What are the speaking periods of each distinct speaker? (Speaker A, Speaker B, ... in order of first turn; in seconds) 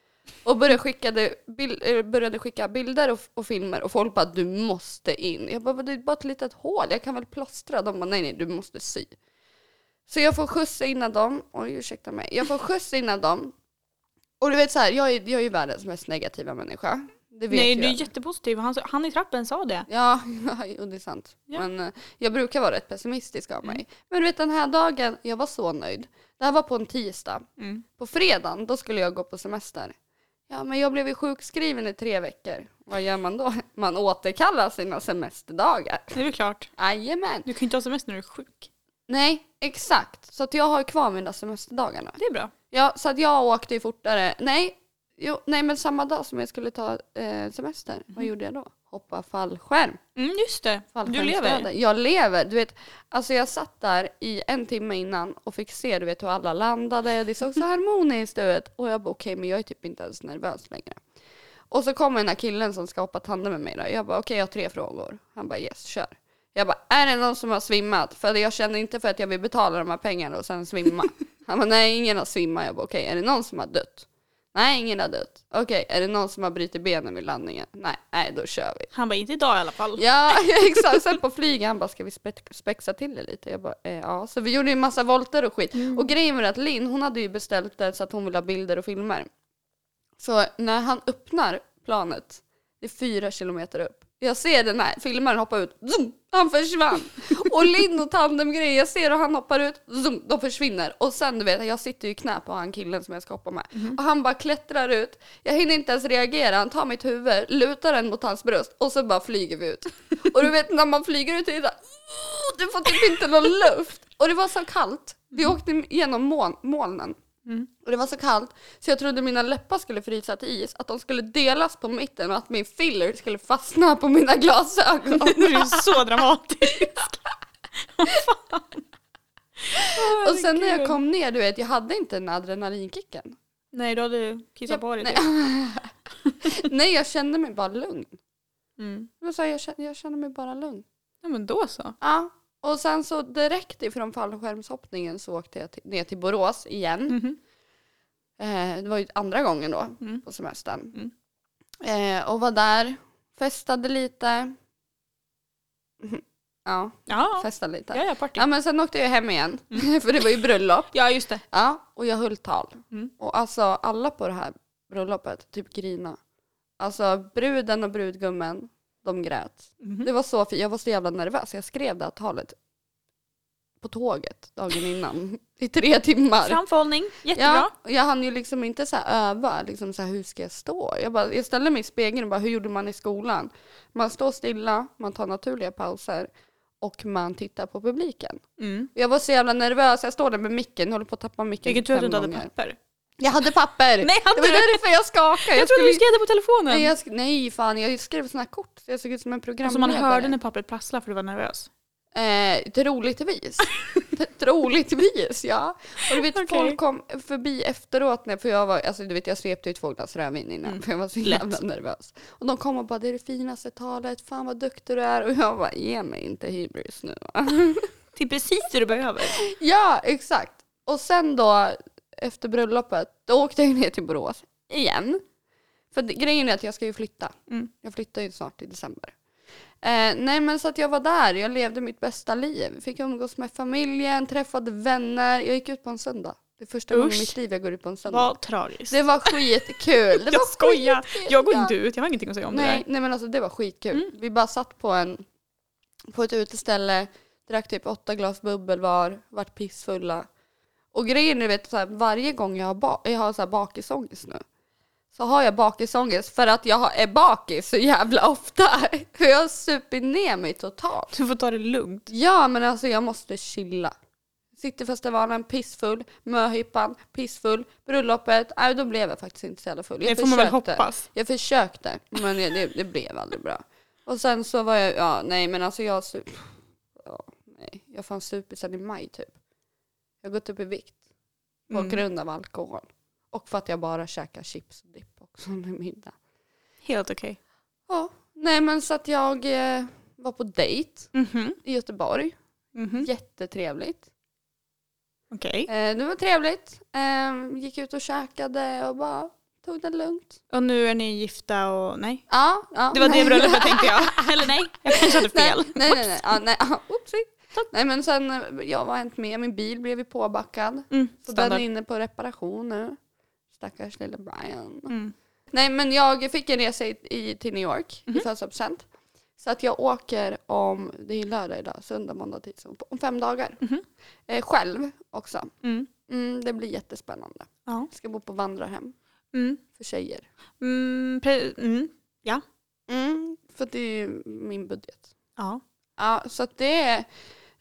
Speaker A: 0.5-9.1, 10.1-13.5, 14.4-18.1, 19.9-29.9, 30.5-36.2, 36.8-37.5, 39.1-42.2, 42.7-50.0, 51.0-61.0, 61.7-78.9, 80.0-89.3, 90.2-117.2, 117.8-126.0, 129.7-133.4, 134.7-138.2, 139.2-140.8, 142.0-147.2, 148.4-151.0, 151.8-154.6, 156.0-160.9, 161.5-166.2, 166.8-172.6, 173.8-176.6, 177.3-186.3, 186.8-188.4, 188.9-192.5, 193.2-196.1, 196.7-200.4, 202.2-217.9, 219.3-225.2, 225.9-229.2, 229.8-238.3, 238.9-241.7, 242.5-245.2, 246.1-250.3, 250.9-254.4, 255.1-261.1, 262.1-263.9, 264.6-279.3, 280.2-281.0, 281.7-286.1, 287.9-292.3, 293.0-294.1, 295.7-300.4, 302.3-313.0, 313.6-314.9, 315.5-318.9, 319.4-323.6, 324.3-325.5, 326.1-328.9, 329.8-330.3, 332.9-335.1, 336.0-337.1
Speaker B: 17.5-19.9, 27.6-27.8, 36.1-36.7, 37.5-38.7, 42.2-42.5, 50.2-51.7, 78.9-80.4, 85.7-86.1, 125.1-127.2, 127.8-128.8, 129.7-131.0, 133.7-135.2, 138.8-139.1, 141.2-141.9, 147.1-147.4, 157.1-158.4, 160.9-161.4, 169.8-170.1, 176.4-177.7, 188.6-188.9, 191.7-192.8, 194.0-194.8, 195.4-196.9, 199.7-201.7, 206.1-206.8, 210.7-211.6, 218.2-219.4, 236.9-237.3, 238.1-239.5, 240.1-242.8, 261.1-262.1, 270.1-271.1, 281.7-282.0, 286.8-287.4, 291.1-291.6, 292.8-293.1, 295.3-295.7, 300.5-302.2, 302.9-306.2, 310.9-311.6, 325.6-325.9, 329.3-329.6, 330.6-332.4, 335.4-335.6